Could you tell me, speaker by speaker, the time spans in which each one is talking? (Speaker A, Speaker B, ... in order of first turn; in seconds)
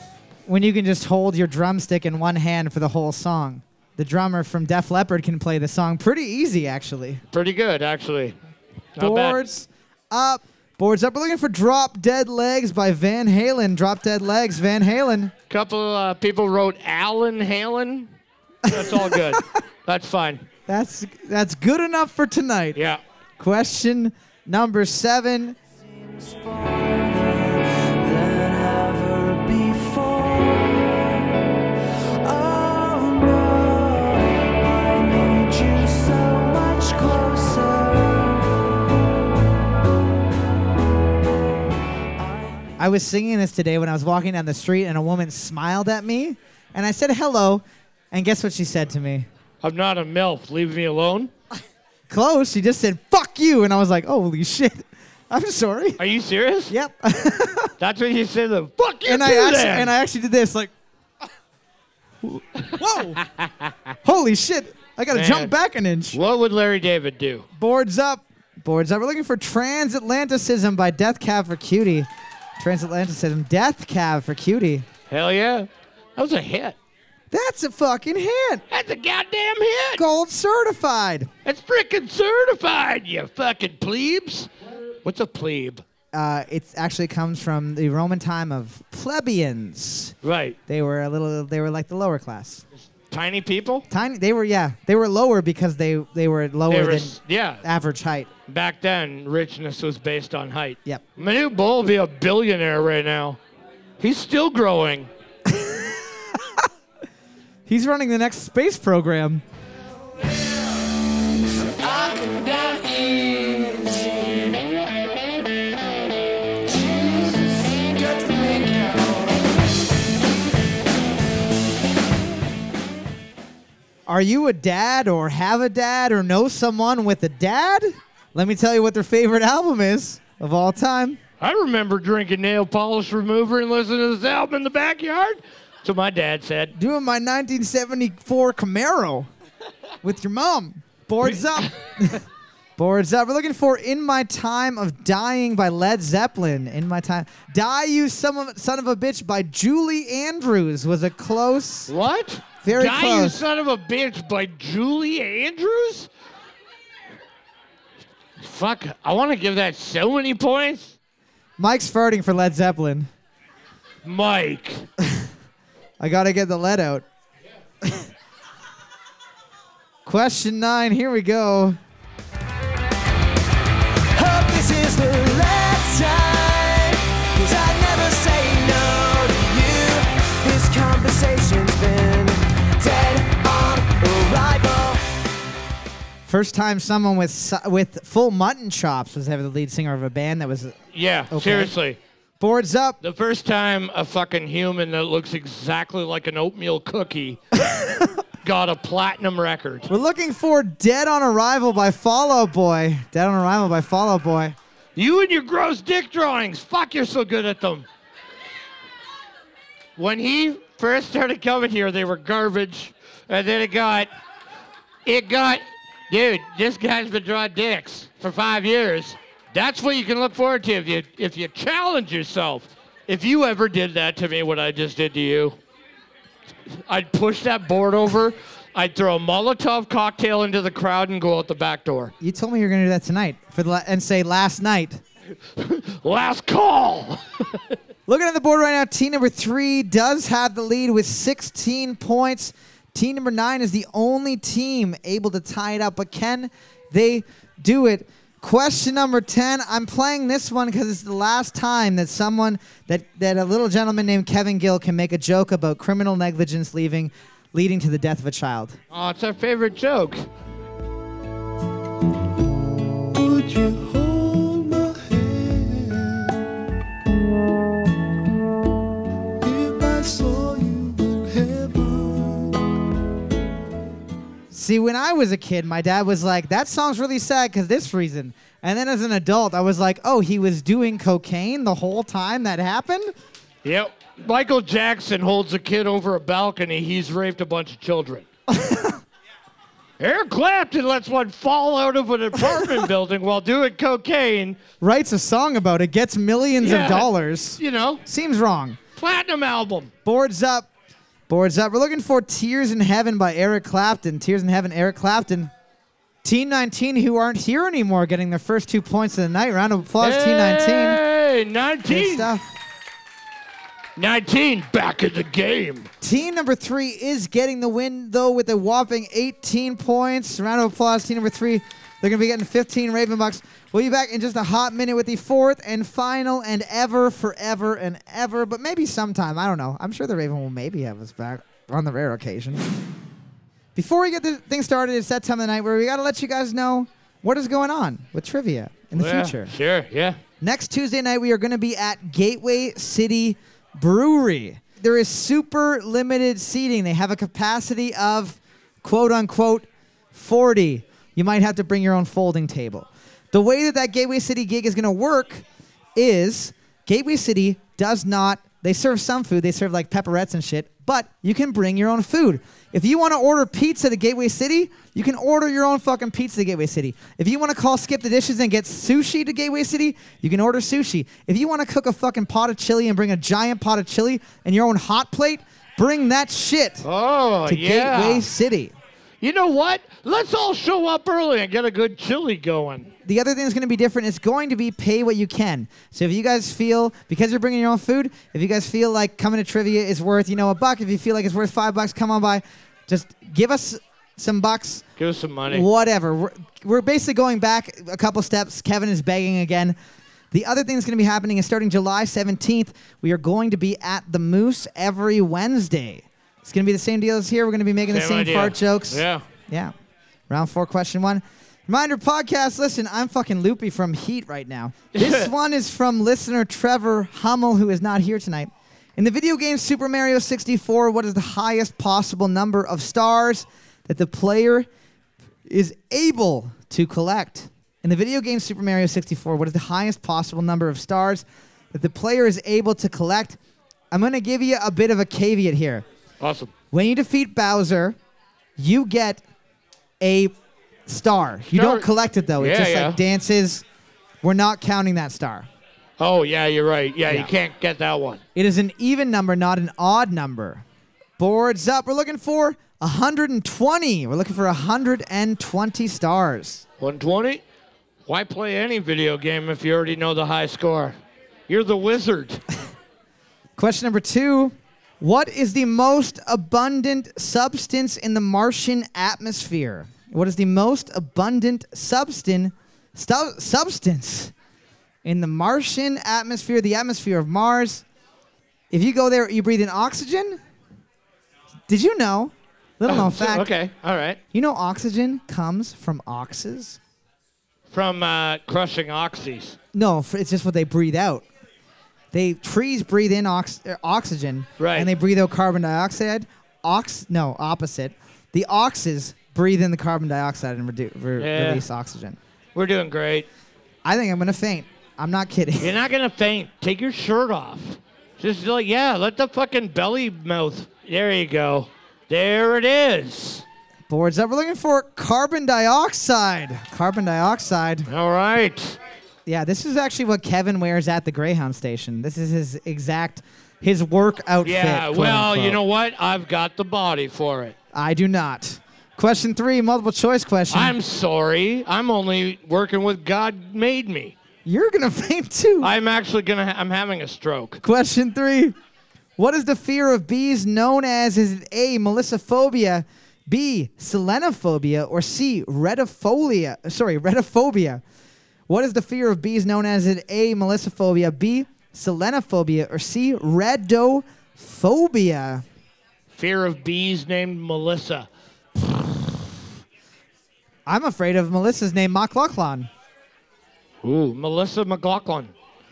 Speaker A: 0.5-7.2, 9.0-15.3, 18.7-19.4, 20.7-22.8, 23.4-25.6, 42.8-49.3, 52.1-56.0, 56.7-57.7, 59.0-60.7, 62.2-63.2, 64.0-66.2, 67.5-72.1, 72.6-74.9, 77.3-78.6, 80.0-81.3, 86.1-90.2, 90.7-92.6, 93.9-98.3, 105.5-106.7, 107.7-109.4, 124.0-131.2, 136.7-139.3, 140.0-142.2, 142.8-151.9, 152.6-153.4, 161.6-163.1, 165.0-165.2, 166.0-167.0, 170.0-171.8, 186.2-190.8, 191.3-191.7, 192.4-193.0, 197.6-198.2, 199.9-204.6, 232.2-235.0, 238.1-258.8, 274.5-283.1, 288.5-289.0, 294.8-298.8, 300.0-300.7, 301.3-305.5, 306.2-311.0, 311.9-312.5, 316.0-332.7, 333.7-339.5, 340.4-355.4, 355.9-376.9, 377.4-378.7, 383.0-394.9, 395.5-399.8, 400.3-409.7, 410.3-424.7, 425.4-433.4, 433.9-435.8, 436.7-438.0, 438.6-439.2, 440.0-440.3, 440.9-443.6, 444.2-445.5, 448.3-450.6, 451.2-456.6, 463.6-474.3, 475.0-477.8, 478.7-480.4, 481.7-483.5, 484.3-486.8, 489.7-491.2, 492.1-502.2, 503.8-505.8, 513.9-517.9, 519.2-525.6, 527.7-530.8, 534.4-535.7, 537.6-538.5, 539.2-547.8, 548.5-555.4, 560.6-562.7
Speaker B: 7.3-8.4, 8.9-9.4, 15.5-18.1, 18.6-20.4, 22.7-23.0, 49.6-51.3, 56.0-56.7, 57.8-59.9, 63.2-63.7, 65.1-65.5, 66.1-67.5, 75.1-76.8, 78.7-80.0, 81.4-84.5, 85.0-85.8, 90.2-90.6, 93.1-93.9, 96.7-97.6, 98.5-103.4, 104.0-105.1, 131.4-136.7, 151.9-156.1, 158.4-160.9, 164.0-164.9, 190.9-192.0, 193.0-197.5, 198.4-199.9, 204.9-207.9, 210.0-214.1, 215.1-225.6, 226.9-232.1, 235.5-237.8, 258.9-260.3, 283.6-288.2, 290.0-294.6, 296.6-298.0, 299.0-299.9, 310.0-312.3, 313.9-315.9, 338.9-340.2, 376.8-378.2, 379.2-382.9, 395.0-395.7, 407.9-409.2, 414.9-415.3, 436.2-436.5, 441.5-441.9, 442.4-443.0, 446.0-448.2, 456.8-457.4, 458.1-460.9, 461.5-462.4, 482.9-484.2, 487.7-489.6, 494.6-494.9, 501.2-501.6, 502.5-503.3, 505.6-513.4, 517.9-518.8, 524.4-527.5, 530.5-534.1, 535.6-537.6, 556.1-558.1, 563.8-565.3
Speaker C: 26.1-31.3, 32.2-38.6, 42.2-42.7, 111.8-114.5, 116.7-119.4, 174.1-185.1, 263.1-266.4, 269.4-272.5